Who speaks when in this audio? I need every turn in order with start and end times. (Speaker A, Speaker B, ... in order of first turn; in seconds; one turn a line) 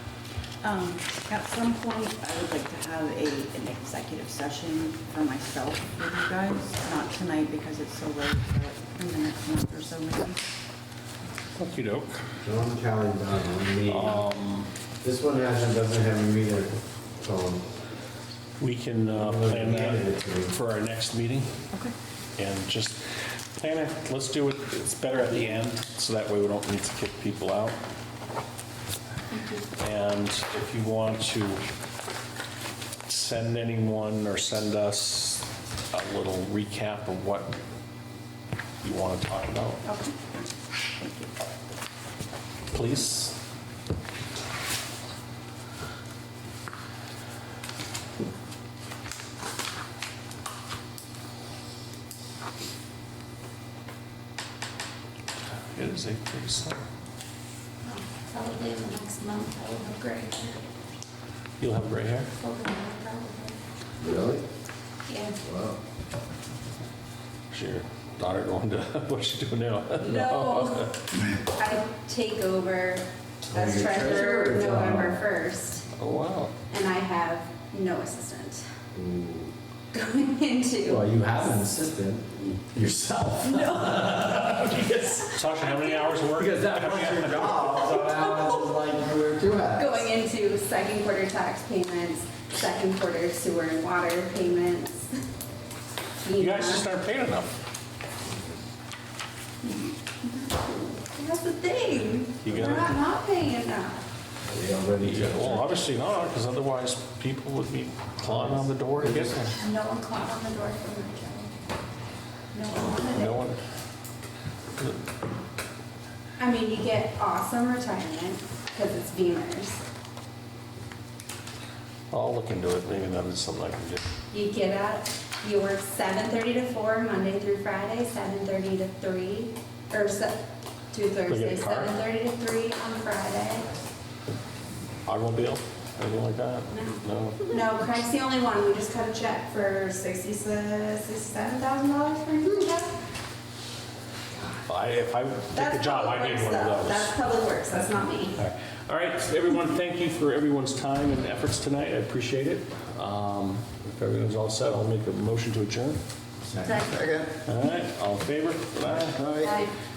Speaker A: 0.6-10.4
Speaker B: 11.6-12.2
Speaker C: 12.4-14.2
Speaker B: 13.8-14.7
Speaker C: 15.0-17.7
Speaker B: 18.6-21.5
Speaker C: 19.1-20.5
Speaker B: 22.4-23.0
Speaker B: 23.6-27.8
Speaker A: 29.3-29.6
Speaker B: 29.8-31.6
Speaker B: 33.1-37.5
Speaker B: 38.8-39.8
Speaker D: 39.8-40.1
Speaker B: 42.7-43.4
Speaker B: 55.7-56.8
Speaker D: 57.8-60.6
Speaker B: 61.6-62.3
Speaker D: 62.4-63.6
Speaker C: 64.0-64.4
Speaker D: 65.1-65.4
Speaker C: 65.4-65.8
Speaker B: 67.5-70.9
Speaker D: 70.0-75.9
Speaker C: 73.5-75.2
Speaker B: 76.0-76.5
Speaker D: 76.7-78.6
Speaker C: 78.9-79.5
Speaker D: 79.9-81.3
Speaker C: 80.8-85.3
Speaker D: 83.4-86.2
Speaker B: 84.1-84.6
Speaker B: 85.3-87.8
Speaker C: 86.3-90.1
Speaker D: 89.8-95.1
Speaker D: 96.2-96.9
Speaker B: 96.3-97.5
Speaker D: 99.6-104.0
Speaker B: 102.4-102.9
Speaker C: 104.5-105.7
Speaker B: 105.0-109.6
Speaker C: 108.2-109.3
Speaker D: 109.6-111.5
Speaker D: 112.5-113.5
Speaker B: 112.8-113.6
Speaker B: 114.8-115.0
Speaker D: 116.4-119.8
Speaker B: 122.1-124.1
Speaker D: 124.3-133.7
Speaker B: 131.3-131.9
Speaker B: 135.1-137.5
Speaker D: 136.7-142.9
Speaker B: 144.7-147.1
Speaker D: 145.5-148.4
Speaker B: 148.4-156.0
Speaker C: 156.4-157.3
Speaker B: 157.4-159.3
Speaker C: 158.8-159.6
Speaker D: 159.4-159.7